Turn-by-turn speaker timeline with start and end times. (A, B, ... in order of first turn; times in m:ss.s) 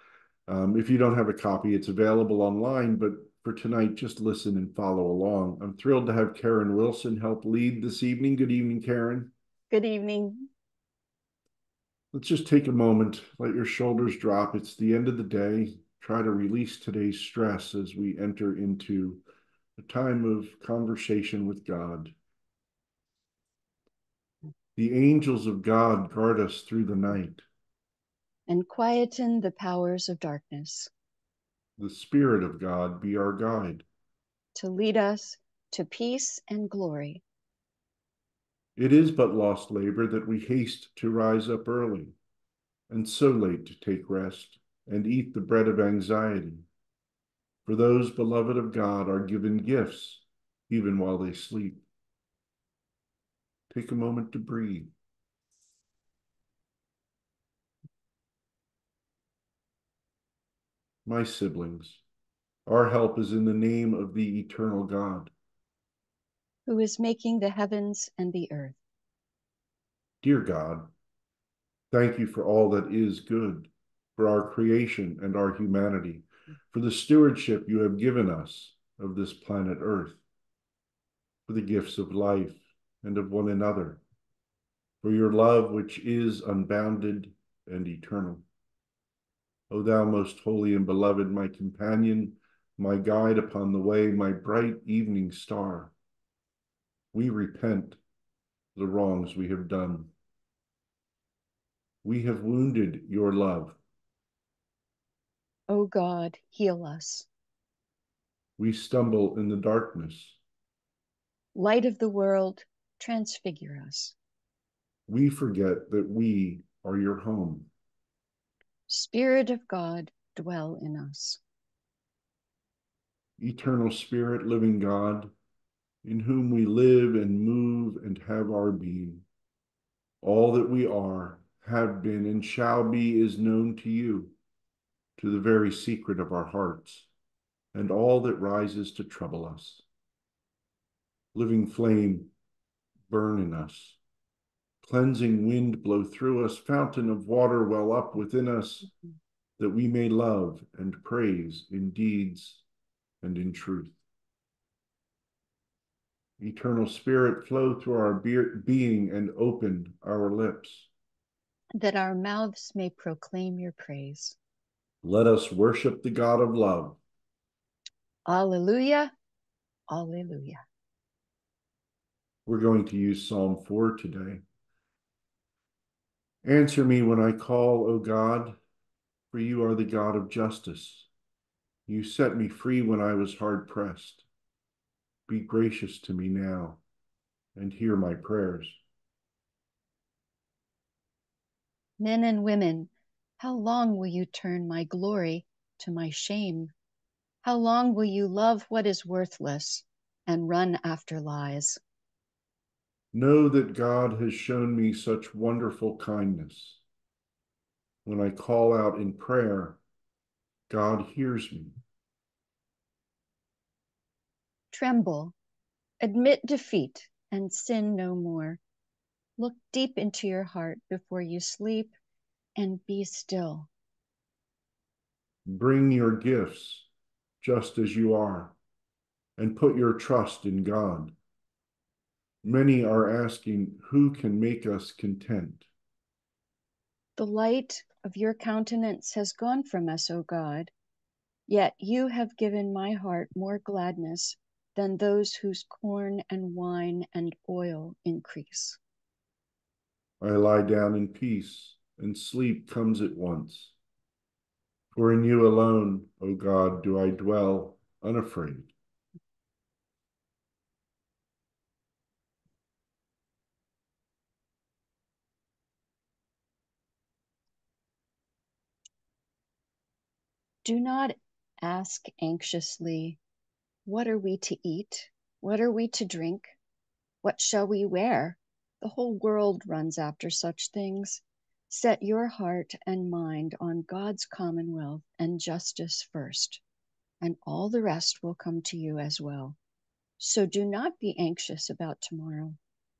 0:00.5-0:09.3 A
0:09.7-0:10.5 B
0:12.1-0:19.2 A
0:19.8-0:22.1 A
0:24.8-0:27.4 A
0:28.5-0:30.9 B
0:31.8-0:33.8 A
0:34.5-0:37.2 B
0:38.8-0:42.1 A
0:42.9-0:46.7 A
0:47.6-0:51.8 A
0:53.7-0:54.9 A
1:01.0-1:02.0 A
1:02.6-1:05.3 A
1:06.6-1:08.8 B
1:10.2-1:10.9 A
1:11.9-1:20.2 A
1:21.5-1:24.0 A
1:25.0-1:28.4 A
1:29.7-1:35.9 A
1:37.1-1:38.0 A
1:38.7-1:40.1 A
1:42.0-1:43.8 A
1:45.7-1:47.3 B
1:48.6-1:50.4 A
1:51.5-1:54.2 B
1:55.1-1:57.7 A
1:58.9-2:01.4 B
2:03.4-2:05.3 A
2:06.0-2:09.2 A
2:10.2-2:14.4 A
2:15.2-2:17.1 A
2:17.7-2:19.8 A
2:21.3-2:22.3 A
2:23.1-2:24.0 A
2:24.8-2:28.9 A
2:29.6-2:32.6 A
2:33.2-2:34.0 A
2:36.4-2:40.9 A
2:41.7-2:44.4 B
2:45.0-2:47.0 A
2:48.2-2:49.1 B
2:49.9-2:50.6 B
2:52.4-2:54.4 A
2:56.4-2:58.6 A
2:59.3-3:01.1 A
3:01.9-3:04.2 A
3:05.3-3:06.8 A
3:07.5-3:08.8 A
3:12.0-3:16.7 B
3:17.4-3:21.8 B
3:23.1-3:26.8 A
3:28.0-3:29.8 A
3:30.7-3:31.7 A
3:34.7-3:35.3 B
3:36.0-3:38.6 B
3:39.4-3:41.9 B
3:42.6-3:43.7 B
3:45.4-3:46.9 A
3:47.4-3:48.6 A
3:49.4-3:51.2 A
3:52.4-3:55.7 A
3:57.2-4:00.7 B
4:01.5-4:08.8 B
4:10.2-4:13.8 A
4:14.9-4:18.7 A
4:30.6-4:33.2 B
4:33.8-4:36.6 B
4:37.2-4:46.6 B
4:47.2-4:49.6 B
4:50.2-4:52.6 B